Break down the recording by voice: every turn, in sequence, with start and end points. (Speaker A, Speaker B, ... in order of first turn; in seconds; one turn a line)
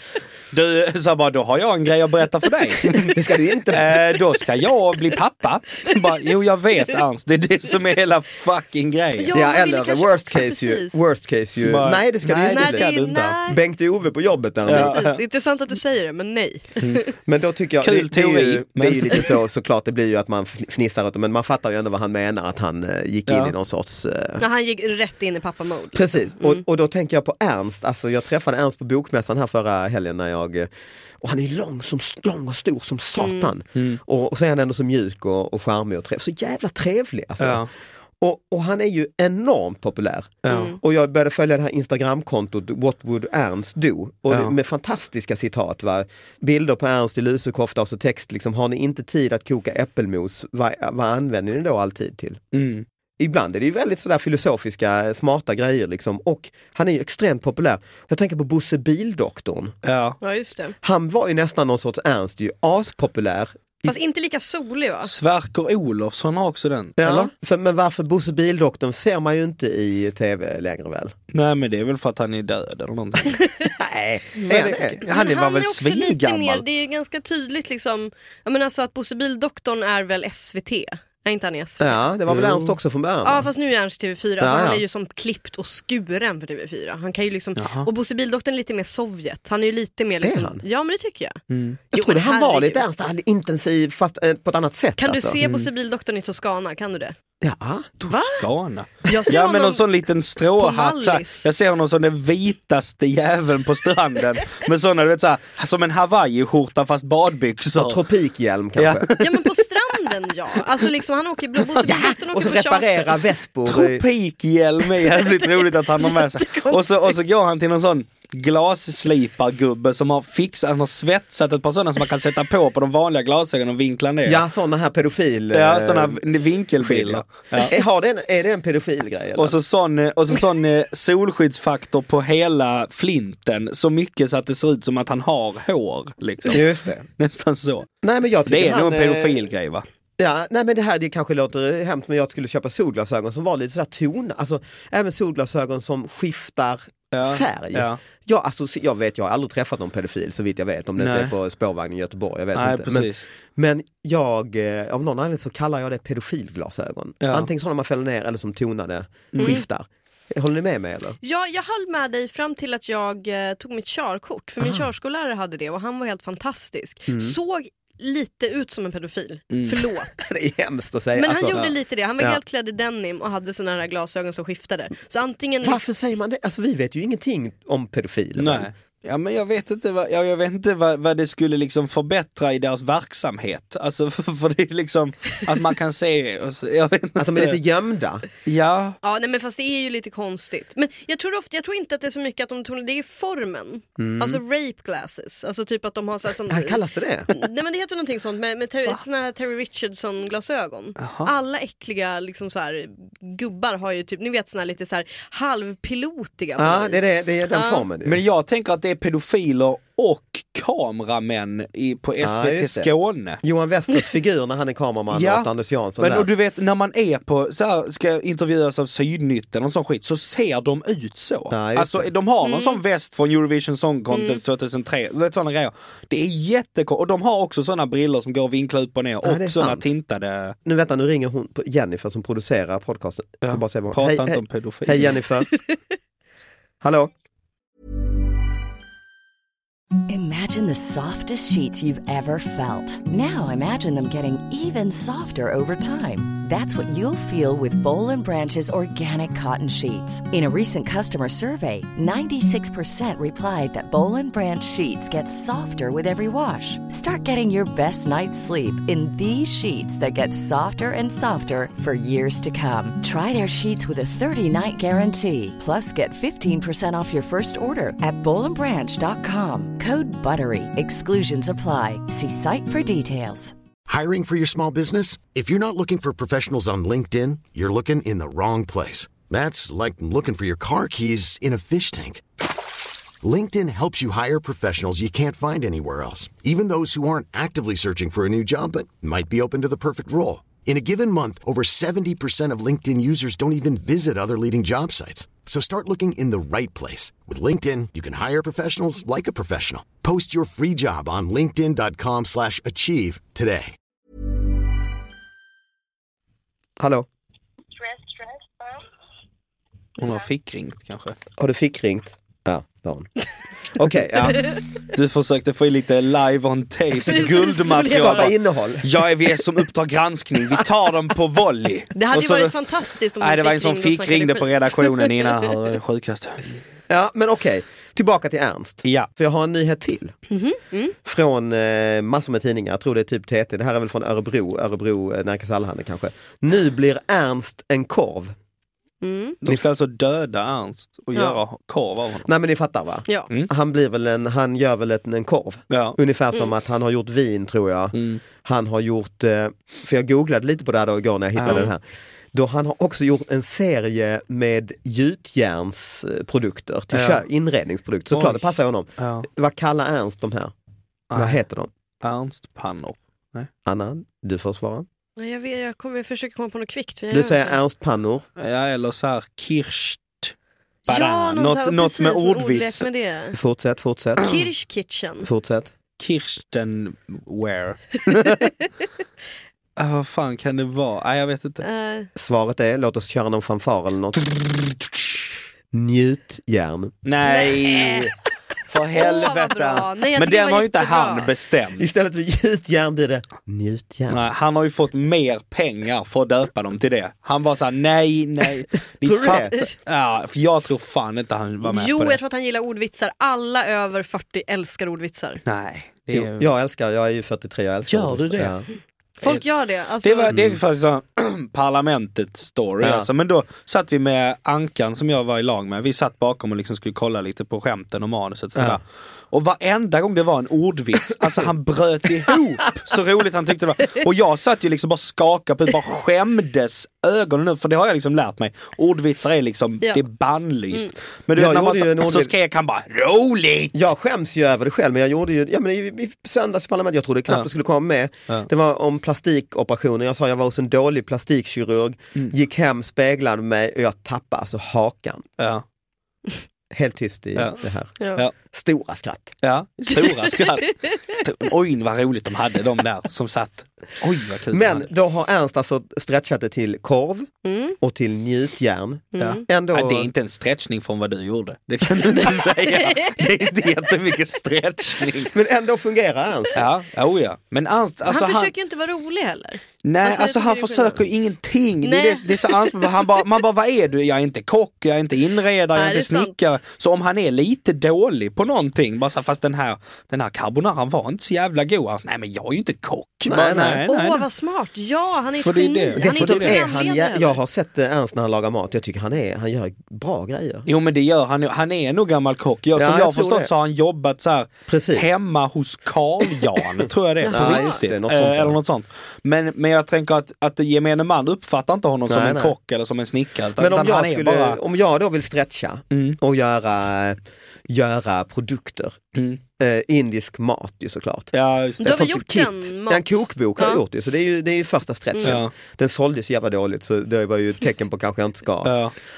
Speaker A: 0.5-3.2
Speaker B: 3.1-4.0
Speaker A: 3.7-9.3
Speaker C: 9.2-11.0
Speaker B: 9.3-12.9
Speaker A: 11.6-13.4
Speaker C: 12.5-13.6
Speaker B: 13.5-15.0
Speaker A: 14.7-15.2
Speaker C: 14.7-17.1
Speaker A: 16.8-17.1
Speaker B: 17.3-24.4
Speaker A: 17.8-19.3
Speaker A: 23.3-23.5
Speaker C: 24.4-26.6
Speaker B: 25.9-30.7
Speaker B: 31.2-37.6
Speaker C: 33.2-33.5
Speaker A: 33.8-34.0
Speaker A: 37.4-37.7
Speaker B: 38.2-52.4
Speaker A: 40.5-40.8
Speaker C: 40.5-40.8
Speaker A: 44.3-44.6
Speaker A: 52.5-52.9
Speaker B: 53.2-59.8
Speaker A: 59.8-60.2
Speaker C: 60.2-60.8
Speaker B: 60.8-63.9
Speaker C: 63.9-65.1
Speaker A: 65.0-67.3
Speaker B: 67.0-71.1
Speaker A: 71.3-73.5
Speaker B: 73.8-75.0
Speaker C: 74.4-82.0
Speaker A: 74.5-76.7
Speaker B: 81.8-83.5
Speaker A: 82.3-82.7
Speaker C: 83.2-91.4
Speaker B: 84.4-84.8
Speaker A: 87.6-87.9
Speaker B: 90.2-90.6
Speaker A: 91.5-91.8
Speaker C: 91.9-92.8
Speaker B: 91.9-95.4
Speaker C: 95.0-97.2
Speaker B: 97.4-98.0
Speaker A: 98.0-108.0
Speaker C: 98.1-98.5
Speaker C: 99.1-99.8
Speaker C: 100.5-101.5
Speaker B: 107.8-109.1
Speaker A: 108.8-109.6
Speaker C: 109.2-113.2
Speaker A: 111.8-112.1
Speaker B: 111.8-114.0
Speaker A: 113.7-124.4
Speaker C: 116.0-117.2
Speaker B: 124.3-126.2
Speaker A: 125.5-127.7
Speaker B: 126.8-129.6
Speaker A: 129.4-137.9
Speaker B: 136.5-137.1
Speaker B: 138.0-139.5
Speaker A: 138.5-139.8
Speaker B: 140.2-161.2
Speaker A: 147.1-148.0
Speaker A: 151.0-151.3
Speaker A: 152.6-153.2
Speaker A: 157.2-157.5
Speaker A: 159.3-159.6
Speaker C: 161.2-170.2
Speaker B: 164.6-164.9
Speaker B: 167.1-167.3
Speaker A: 169.5-169.8
Speaker B: 170.2-172.4
Speaker C: 171.2-175.8
Speaker B: 175.6-178.7
Speaker A: 178.4-187.6
Speaker B: 187.2-188.2
Speaker A: 188.4-189.0
Speaker C: 189.0-207.9
Speaker B: 194.0-194.4
Speaker B: 196.5-197.3
Speaker A: 201.0-201.3
Speaker B: 206.6-208.2
Speaker A: 208.1-213.4
Speaker B: 212.2-216.3
Speaker A: 215.1-230.6
Speaker B: 221.5-222.1
Speaker C: 222.4-222.8
Speaker C: 224.1-224.4
Speaker B: 229.2-229.9
Speaker B: 230.7-235.5
Speaker A: 233.4-235.2
Speaker B: 236.8-237.1
Speaker D: 240.1-273.5
Speaker E: 273.9-282.2
Speaker E: 283.2-303.8
Speaker B: 306.8-307.1
Speaker A: 310.0-311.2
Speaker B: 311.4-313.1
Speaker B: 313.7-314.4
Speaker A: 314.9-322.6
Speaker C: 317.0-318.3
Speaker B: 317.9-318.9
Speaker C: 321.9-325.5
Speaker A: 323.2-326.6
Speaker B: 326.9-330.1
Speaker A: 328.8-329.1
Speaker C: 330.3-330.9
Speaker B: 331.1-338.4
Speaker C: 339.0-339.4
Speaker A: 339.4-342.3
Speaker C: 341.1-341.4
Speaker B: 342.3-351.8
Speaker A: 345.7-346.0
Speaker A: 347.9-348.2
Speaker A: 351.4-351.7
Speaker B: 352.3-360.5
Speaker A: 356.9-357.2
Speaker A: 358.1-359.3
Speaker A: 361.1-361.4
Speaker B: 361.1-361.7
Speaker A: 362.0-363.5
Speaker B: 363.6-364.9
Speaker C: 365.2-367.6
Speaker B: 367.1-368.3
Speaker A: 368.4-370.3
Speaker C: 370.9-373.4
Speaker A: 370.9-372.9
Speaker B: 373.4-374.3
Speaker C: 374.2-375.3
Speaker B: 375.2-375.7
Speaker A: 376.0-378.5
Speaker A: 379.8-381.6
Speaker C: 381.6-382.1
Speaker B: 382.1-384.8
Speaker B: 385.7-386.9
Speaker A: 387.0-388.1
Speaker C: 387.2-388.1
Speaker A: 388.7-391.9
Speaker C: 388.9-391.3
Speaker B: 391.8-394.2
Speaker A: 394.1-402.2
Speaker B: 399.0-399.6
Speaker C: 401.6-405.4
Speaker A: 405.4-406.5
Speaker B: 406.1-408.7
Speaker A: 407.9-408.6
Speaker C: 409.2-410.4
Speaker A: 410.0-433.9
Speaker B: 410.3-410.6
Speaker B: 412.8-413.1
Speaker B: 431.4-432.3
Speaker B: 433.7-445.3
Speaker A: 445.4-445.6
Speaker B: 446.7-449.4
Speaker A: 447.4-447.6
Speaker C: 448.0-448.2
Speaker A: 449.4-454.9
Speaker C: 450.0-450.7
Speaker B: 454.5-460.1
Speaker C: 457.4-457.8
Speaker C: 459.1-459.4
Speaker A: 459.2-465.3
Speaker C: 462.3-463.3
Speaker B: 465.3-466.6
Speaker A: 466.6-468.5
Speaker C: 468.1-471.0
Speaker A: 469.8-484.3
Speaker C: 471.8-473.1
Speaker C: 475.7-476.4
Speaker B: 483.3-483.8
Speaker C: 483.6-487.4
Speaker A: 485.4-486.6
Speaker B: 486.0-490.7
Speaker A: 490.7-504.6
Speaker B: 492.8-493.5
Speaker B: 494.7-495.1
Speaker C: 497.2-497.8
Speaker B: 497.3-498.6
Speaker B: 502.1-502.6
Speaker B: 503.6-507.2
Speaker A: 505.9-506.2
Speaker B: 507.7-509.0
Speaker A: 509.1-509.4
Speaker B: 509.6-518.8
Speaker A: 511.3-512.0
Speaker C: 511.8-513.8
Speaker C: 515.2-515.4
Speaker A: 515.2-515.5
Speaker A: 518.6-518.9